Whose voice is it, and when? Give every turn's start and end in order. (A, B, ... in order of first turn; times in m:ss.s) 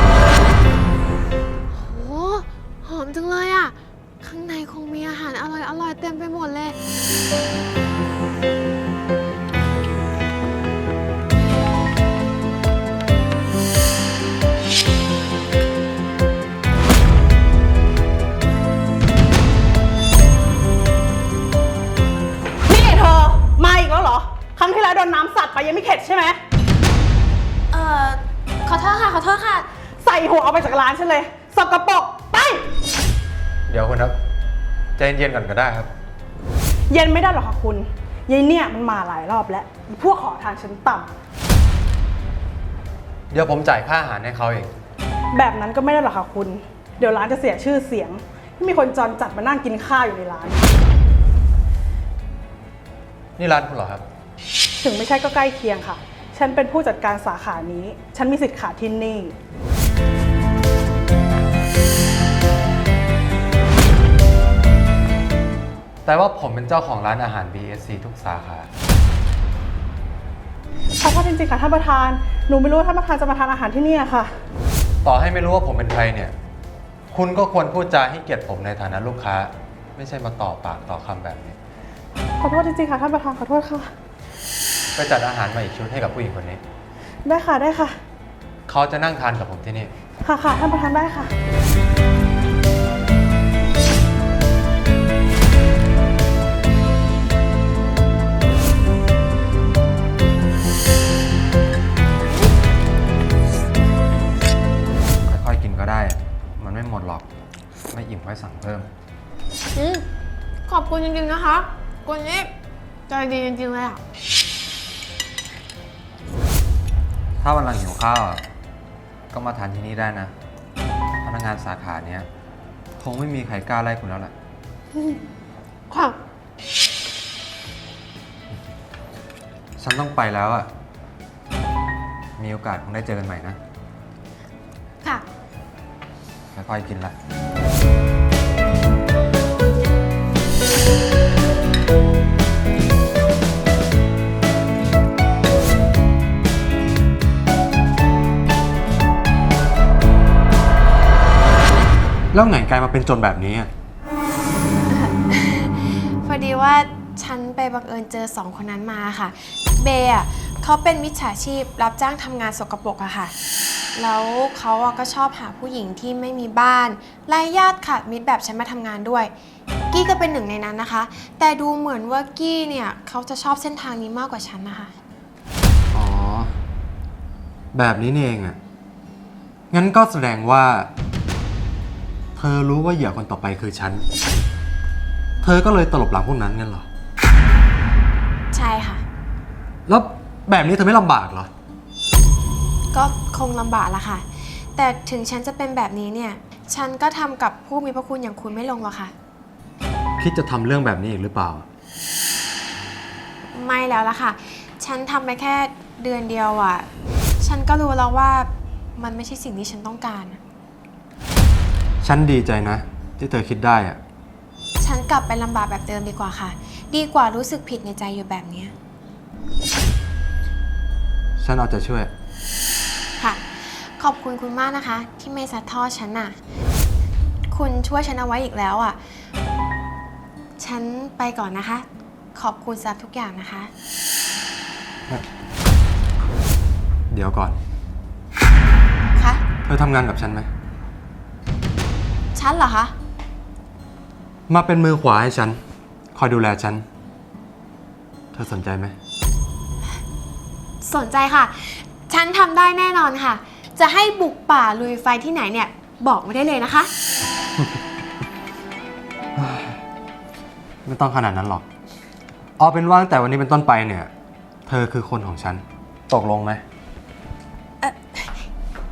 0:01.7-0:06.8 A
0:22.6-0:26.4 B
0:27.7-0:29.7 A
0:30.0-0:32.7 B
0:33.7-0:34.2 C
0:35.0-0:35.9 C
0:36.9-0:41.1 B
0:43.3-0:44.7 C
0:45.3-0:50.6 B
0:53.4-0:54.0 C
0:54.8-0:59.4 B
1:06.0-1:08.7 C
1:11.0-1:14.3 B
1:15.0-1:16.3 C
1:17.1-1:21.6 C
1:22.4-1:23.9 B
1:24.9-1:26.6 C
1:27.2-1:28.0 B
1:28.7-1:29.9 C
1:30.2-1:31.3 B
1:45.3-1:47.2 C
1:47.9-1:48.9 C
1:49.8-1:50.0 A
1:50.7-1:52.5 A
1:53.1-1:54.0 A
1:57.4-1:58.4 C
1:59.3-2:00.3 C
2:01.2-2:02.3 C
2:03.0-2:04.3 C
2:05.9-2:06.2 A
2:09.8-2:10.7 C
2:12.4-2:13.6 C
2:16.5-2:17.1 C
2:32.3-2:33.7 C
2:34.9-2:43.3 A
2:43.9-2:49.3 A
2:49.9-2:54.9 A
2:55.9-2:56.5 C
2:57.7-2:58.6 C
2:59.7-3:00.9 C
3:02.4-3:04.0 C
3:05.4-3:06.8 C
3:08.5-3:09.0 A
3:09.9-3:11.5 C
3:12.9-3:19.1 A
3:20.2-3:21.6 C
3:23.5-3:26.9 A
3:27.4-3:30.4 A
3:32.0-3:34.0 C
3:34.8-3:38.7 A
3:41.4-3:42.1 C
3:43.2-3:46.4 A
3:47.5-3:49.0 A
3:50.6-3:53.7 A
3:57.1-3:57.6 C
3:59.1-3:59.4 A
3:59.6-4:00.5 C
4:02.3-4:02.9 A
4:04.5-4:05.6 C
4:06.1-4:06.8 C
4:08.3-4:09.0 C
4:10.8-4:16.9 A
4:19.4-4:19.8 C
4:20.8-4:21.6 C
4:22.6-4:24.1 C
4:24.7-4:26.6 C
4:27.8-4:28.4 A